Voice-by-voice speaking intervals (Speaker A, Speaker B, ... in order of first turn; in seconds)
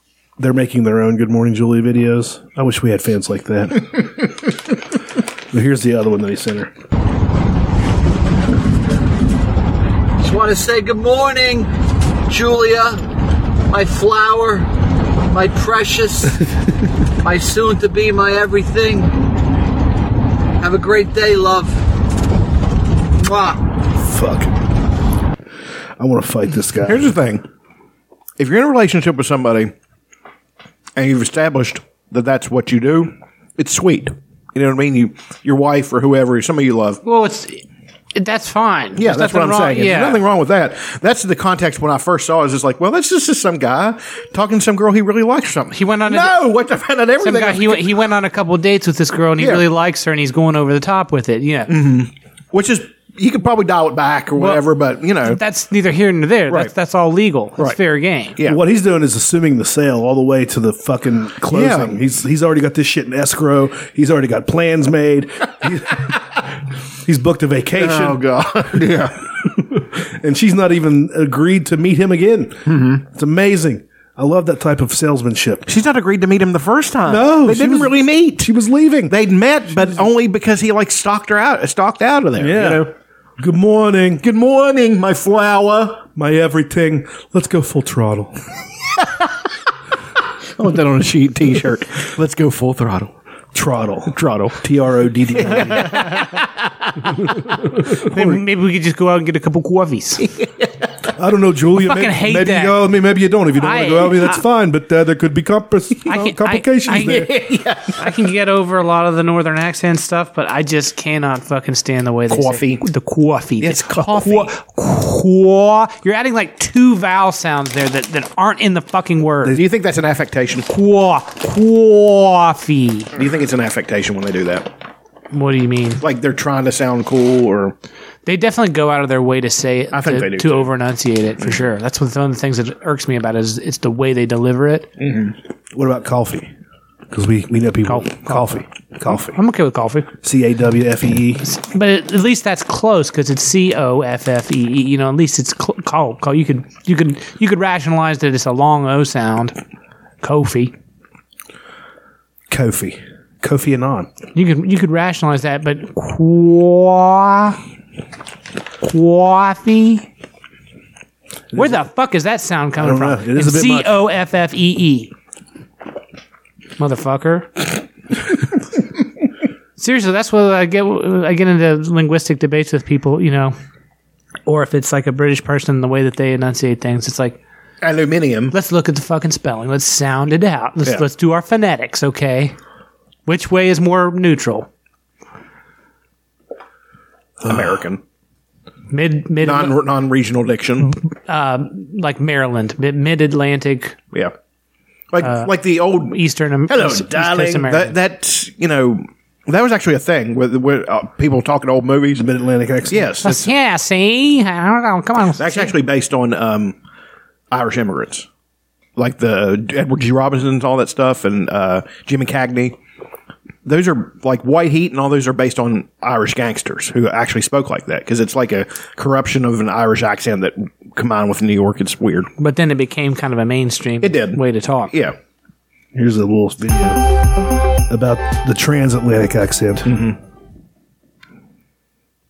Speaker A: 0.4-4.1, 5.5-6.7, 24.0-24.5, 26.0-27.1, 58.4-66.1, 67.0-68.2, 69.6-75.7, 77.0-79.1, 79.7-80.0, 82.4-84.2, 86.2-88.3, 93.5-96.0, 101.2-107.3, 135.7-136.5, 137.1-139.3, 140.2-141.4, 152.5-154.1, 162.8-164.0, 202.1-203.1, 225.9-227.0, 227.9-229.9
Speaker B: 10.2-11.7, 12.3-13.0, 13.7-14.7, 15.3-16.4, 17.2-19.1, 20.6-21.8, 23.2-23.6
Speaker C: 26.8-27.4, 28.4-29.7, 31.0-37.0, 39.0-48.0, 49.4-49.6, 51.7-55.4, 61.5-62.0, 67.8-69.3, 72.7-73.0, 75.7-78.5, 79.1-82.9, 84.2-86.1, 90.6-93.1, 94.1-94.6, 95.4-96.3, 107.0-108.0, 112.3-112.8, 113.6-114.5, 119.4-120.7, 123.2-124.7, 126.0-127.7, 129.9-130.7, 135.0-135.3, 177.8-178.5, 187.4-188.0, 189.4-191.0, 195.1-202.3, 202.9-203.5, 205.4-206.8, 207.5-208.3, 209.0-212.8, 213.7-222.3, 224.0-224.4, 229.8-230.2
Speaker D: 37.0-37.6, 38.1-40.2, 45.7-46.4, 47.2-51.7, 54.4-54.6, 55.2-58.4, 97.9-100.3, 101.8-102.8, 103.6-104.4, 106.1-107.3, 108.0-119.6, 120.7-123.1, 125.3-126.0, 128.2-134.9, 137.8-140.1, 141.4-149.6, 150.2-150.7, 154.3-157.6, 158.8-160.1, 161.5-165.1, 166.8-167.6, 169.8-173.6, 174.5-177.4, 178.5-182.5, 183.2-184.7, 188.9-189.8, 191.3-193.9, 195.2-198.0, 203.2-205.7, 222.4-224.9